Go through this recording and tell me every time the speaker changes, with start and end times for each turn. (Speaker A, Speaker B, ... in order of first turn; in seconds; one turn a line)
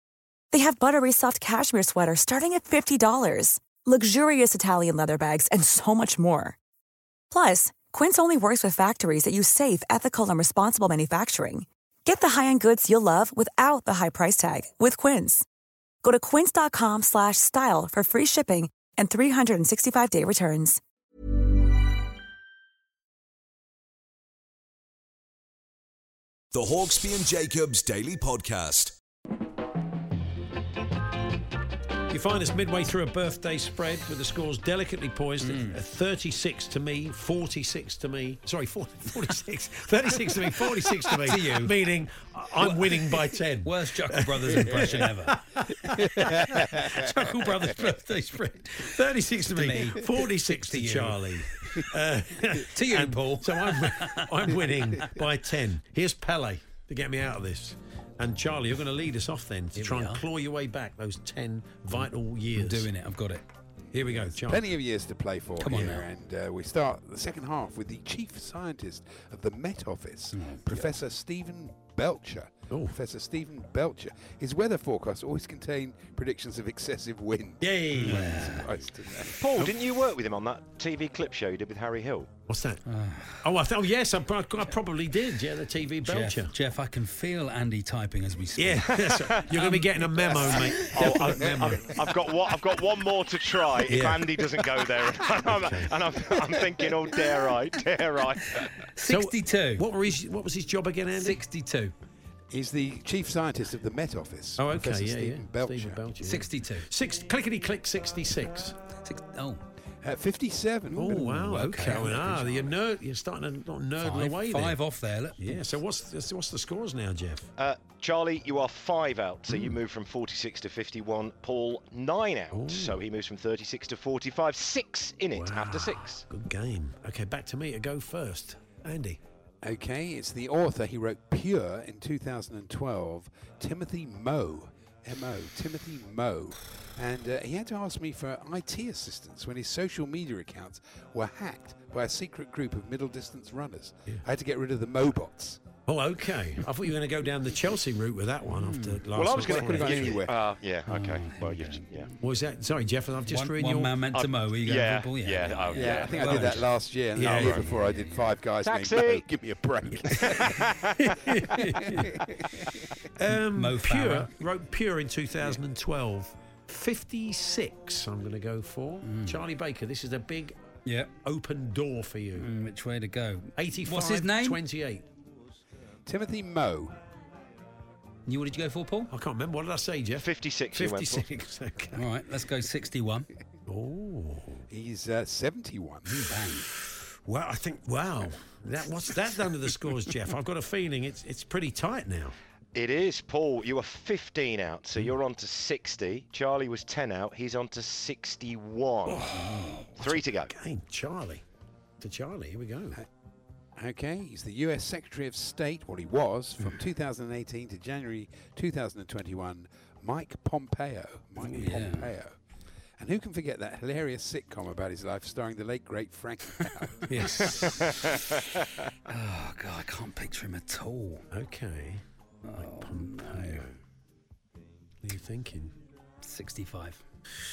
Speaker A: 0.5-6.6
Speaker A: 7.3-15.5
Speaker A: 16.0-20.8
Speaker B: 26.5-28.9
Speaker C: 32.1-62.9
Speaker D: 35.4-35.8
Speaker D: 41.1-41.8
Speaker D: 42.6-48.8
Speaker E: 44.7-45.0
Speaker E: 45.9-47.3
Speaker D: 49.5-51.5
Speaker D: 52.7-54.6
Speaker D: 59.8-60.2
Speaker D: 62.5-63.5
Speaker C: 63.9-64.7
Speaker E: 64.2-79.5
Speaker D: 65.6-66.1
Speaker C: 65.7-66.0
Speaker D: 70.3-70.9
Speaker C: 72.7-73.0
Speaker C: 77.6-78.6
Speaker D: 78.0-78.7
Speaker F: 79.4-82.3
Speaker C: 82.5-82.8
Speaker D: 82.9-83.4
Speaker C: 83.4-86.5
Speaker D: 86.0-91.4
Speaker C: 88.6-92.1
Speaker F: 89.1-89.5
Speaker F: 90.9-98.5
Speaker C: 93.8-94.5
Speaker C: 95.4-95.9
Speaker D: 99.0-99.9
Speaker C: 99.0-101.4
Speaker D: 101.2-101.9
Speaker E: 102.5-106.0
Speaker C: 104.6-108.8
Speaker D: 106.2-106.9
Speaker D: 109.0-109.6
Speaker E: 110.0-112.0
Speaker C: 110.9-114.8
Speaker D: 111.0-112.6
Speaker D: 114.0-115.6
Speaker C: 115.4-117.5
Speaker F: 117.6-126.2
Speaker C: 122.5-123.0
Speaker C: 125.3-129.2
Speaker E: 129.6-145.6
Speaker C: 145.9-150.2
Speaker D: 148.5-149.1
Speaker F: 149.1-152.1
Speaker E: 149.3-150.3
Speaker D: 150.9-152.1
Speaker C: 152.2-154.2
Speaker D: 153.3-158.3
Speaker F: 154.1-156.6
Speaker E: 155.7-160.7
Speaker C: 157.2-157.6
Speaker F: 158.6-159.2
Speaker D: 159.9-160.6
Speaker C: 161.0-162.0
Speaker D: 161.5-162.1
Speaker E: 161.7-162.7
Speaker C: 163.2-170.6
Speaker D: 163.5-164.3
Speaker D: 169.0-169.4
Speaker D: 170.9-171.1
Speaker C: 171.2-172.5
Speaker D: 172.4-174.6
Speaker C: 173.6-175.1
Speaker E: 176.1-177.0
Speaker D: 178.3-179.1
Speaker C: 179.1-182.0
Speaker F: 180.2-181.2
Speaker D: 181.9-183.3
Speaker C: 183.7-184.6
Speaker E: 184.7-186.3
Speaker D: 186.1-186.7
Speaker C: 186.7-192.4
Speaker F: 192.8-199.3
Speaker C: 199.1-201.4
Speaker D: 199.4-199.8
Speaker F: 200.0-200.5
Speaker C: 202.0-203.0
Speaker E: 203.8-212.4
Speaker D: 211.5-212.1
Speaker E: 213.0-217.2
Speaker C: 217.1-217.9
Speaker D: 217.4-218.0
Speaker F: 217.7-217.9
Speaker D: 219.1-221.2
Speaker C: 221.3-223.7
Speaker D: 222.4-223.7
Speaker C: 225.0-225.7
Speaker D: 226.2-227.0